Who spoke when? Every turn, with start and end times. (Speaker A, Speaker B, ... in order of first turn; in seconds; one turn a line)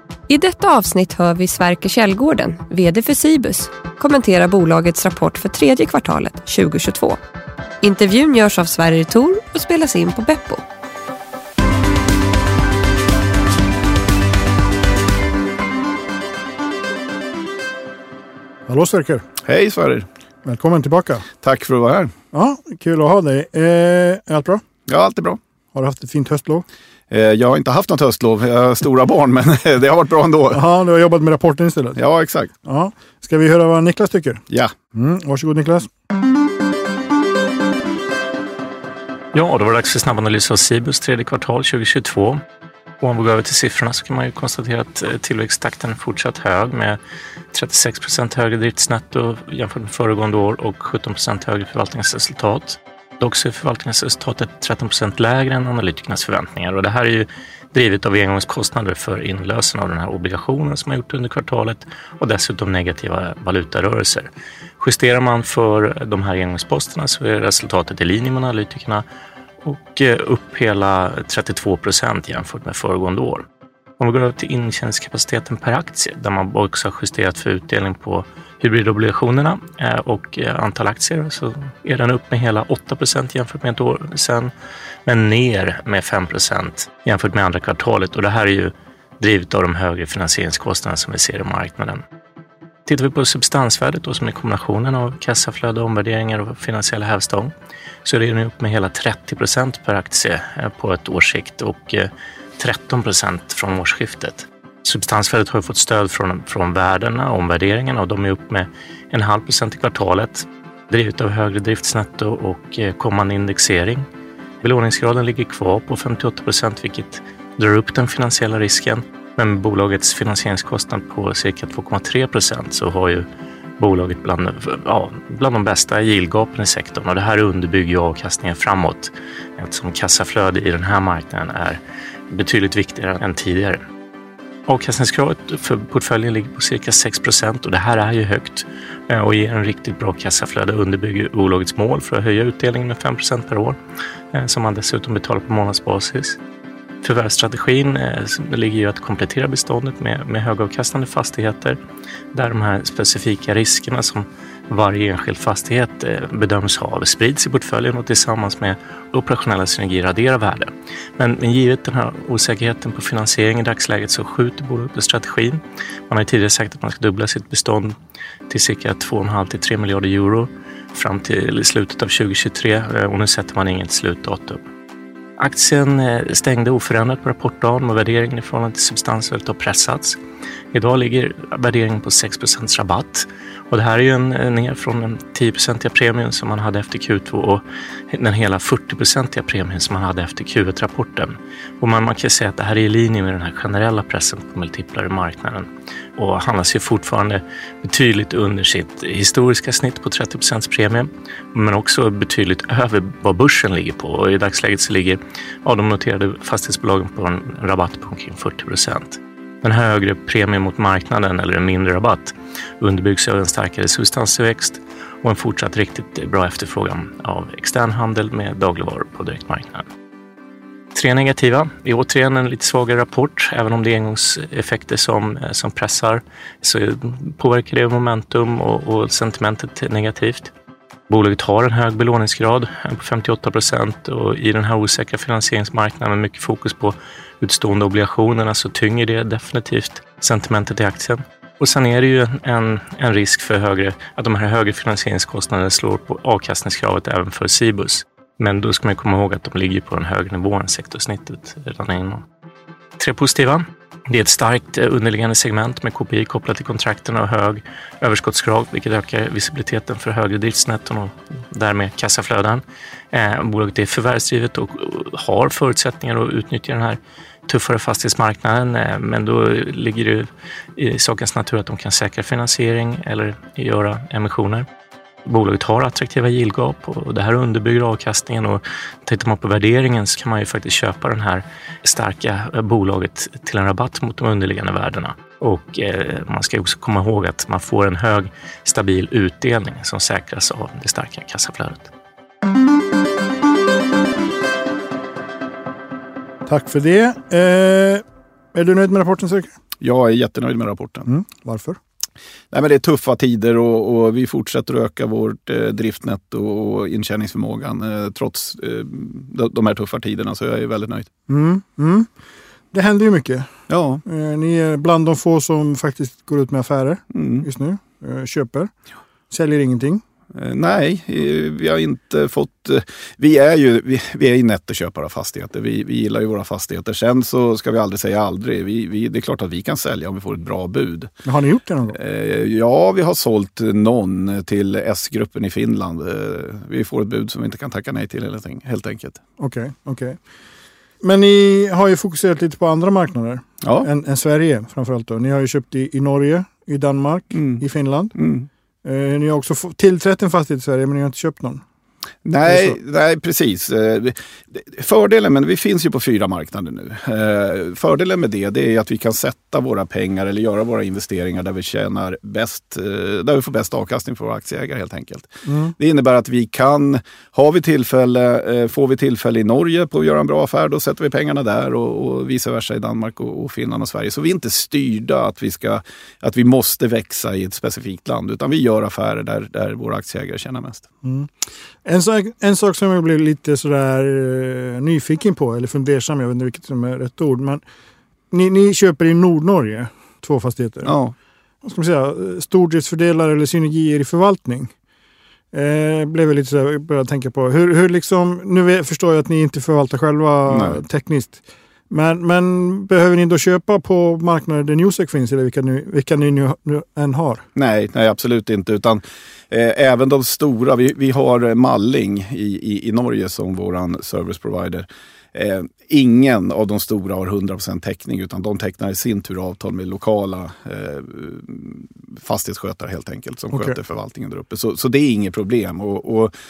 Speaker A: 0.3-7.2
Speaker A: 7.8-10.6
Speaker B: 18.7-19.2
Speaker C: 19.4-20.1
Speaker B: 20.4-21.2
Speaker C: 21.4-22.1
Speaker B: 22.3-24.6
Speaker C: 24.9-25.4
Speaker B: 25.7-26.6
Speaker C: 27.1-30.6
Speaker B: 30.5-32.0
Speaker C: 31.9-32.5
Speaker B: 32.6-34.4
Speaker B: 34.9-35.9
Speaker D: 39.3-42.4
Speaker D: 43.0-47.0
Speaker D: 47.5-64.3
Speaker D: 64.8-69.0
Speaker D: 69.6-73.5
Speaker D: 74.0-84.5
Speaker D: 85.0-92.0
Speaker D: 92.8-97.5
Speaker D: 98.0-114.0
Speaker D: 114.6-123.2
Speaker D: 123.8-133.8
Speaker D: 134.7-143.8
Speaker D: 144.3-146.4
Speaker D: 147.0-151.8
Speaker D: 152.3-167.9
Speaker D: 168.5-174.6
Speaker D: 175.4-180.2
Speaker D: 180.7-219.9
Speaker D: 220.9-230.5
Speaker D: 231.1-252.2
Speaker D: 253.0-274.6
Speaker D: 275.2-291.9
Speaker B: 296.4-299.5
Speaker C: 299.8-301.1
Speaker B: 301.1-301.8
Speaker C: 302.5-311.1
Speaker B: 311.3-312.1
Speaker B: 312.7-313.5
Speaker C: 313.7-314.0
Speaker B: 314.0-318.7
Speaker C: 317.1-317.4
Speaker B: 319.3-320.0
Speaker C: 320.3-331.1
Speaker B: 331.2-332.0
Speaker C: 331.9-339.2
Speaker B: 339.4-340.2
Speaker B: 341.0-348.1
Speaker C: 343.6-343.9
Speaker C: 347.3-347.6
Speaker C: 348.1-348.5
Speaker B: 348.8-351.6
Speaker C: 352.2-380.8
Speaker B: 352.4-352.8
Speaker B: 365.4-365.7
Speaker B: 381.0-381.3
Speaker B: 381.8-387.6
Speaker B: 388.3-390.9
Speaker C: 390.8-391.1
Speaker B: 391.6-394.7
Speaker B: 395.5-407.4
Speaker C: 400.5-400.8
Speaker C: 407.5-426.3